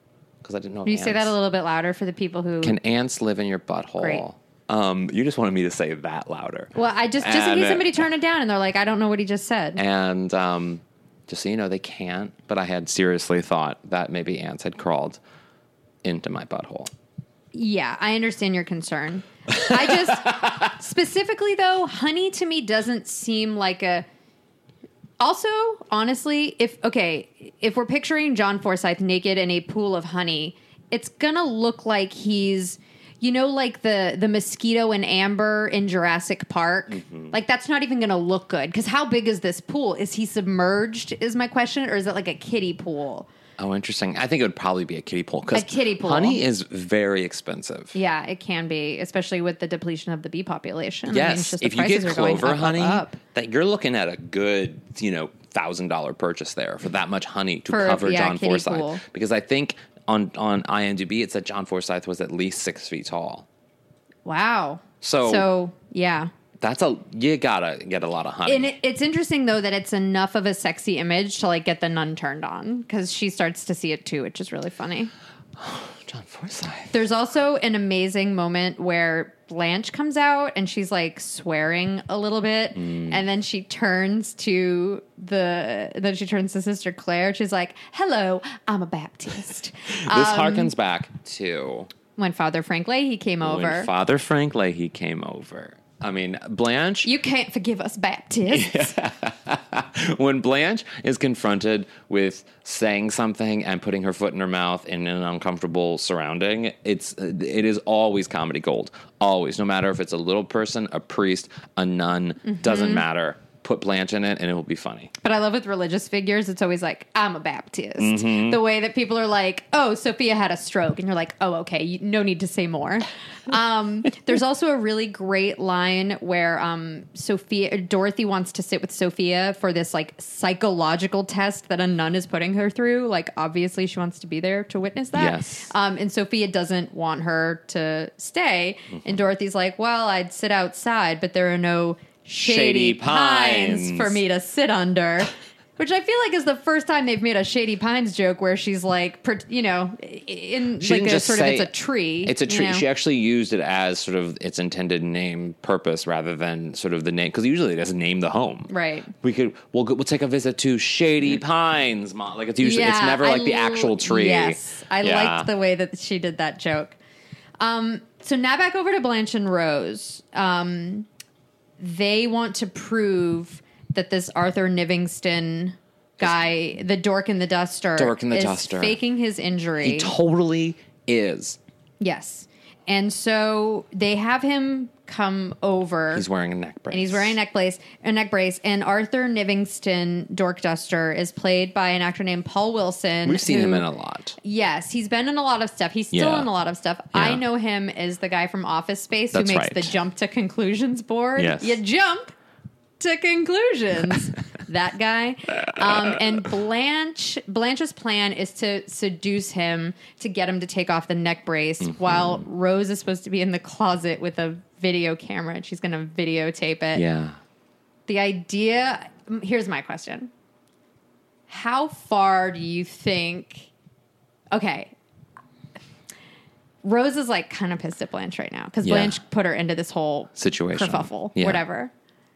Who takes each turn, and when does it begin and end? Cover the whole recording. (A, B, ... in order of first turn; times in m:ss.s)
0:00.4-0:01.4 A
0:00.8-0:02.8 B
0:02.6-0:08.0 A
0:04.0-0:04.2 B
0:06.8-0:09.8 B
0:09.8-0:15.2 A
0:16.0-0:16.9 A
0:17.5-0:24.0 B
0:19.7-0:20.1 A
0:25.2-0:43.3 B
0:36.9-0:37.3 A
0:43.6-0:48.0 A
0:45.5-0:46.4 B
0:47.9-0:53.2 B
0:51.1-1:03.5 A
0:57.7-0:59.0 B
1:04.2-1:06.3 B
1:05.0-1:05.5 A
1:06.6-1:08.7 A
1:08.5-1:15.1 B
1:15.6-1:17.0 A
1:16.9-1:30.7 B
1:22.8-1:23.2 A
1:30.1-1:31.9 A
1:32.2-1:33.9 B
1:33.4-1:37.1 A
1:37.0-1:38.9 B
1:38.5-1:55.1 A
1:52.4-1:53.0 B
1:55.2-2:32.8 B
1:58.0-1:58.6 A
2:15.1-2:15.7 A
2:22.4-2:24.2 A
2:30.8-2:31.7 A
2:32.2-2:45.5 A
2:38.7-2:39.1 B
2:42.6-2:47.0 B
2:47.6-2:51.1 B
2:51.8-3:00.1 B
2:58.0-2:59.0 A
2:59.8-3:01.6 A
3:02.0-3:06.3 B
3:06.1-3:07.4 A
3:06.9-3:13.9 B
3:13.2-3:14.4 A
3:14.4-3:22.3 B
3:16.1-3:16.5 A
3:17.1-3:17.4 A
3:19.3-3:19.9 A
3:21.4-3:21.8 A
3:23.0-3:37.0 B
3:31.8-3:32.4 A
3:36.9-3:37.4 A
3:38.1-3:40.3 B
3:41.5-3:43.7 B
3:44.5-3:44.9 B
3:46.8-3:51.9 B
3:48.8-3:49.2 A
3:50.4-3:51.6 A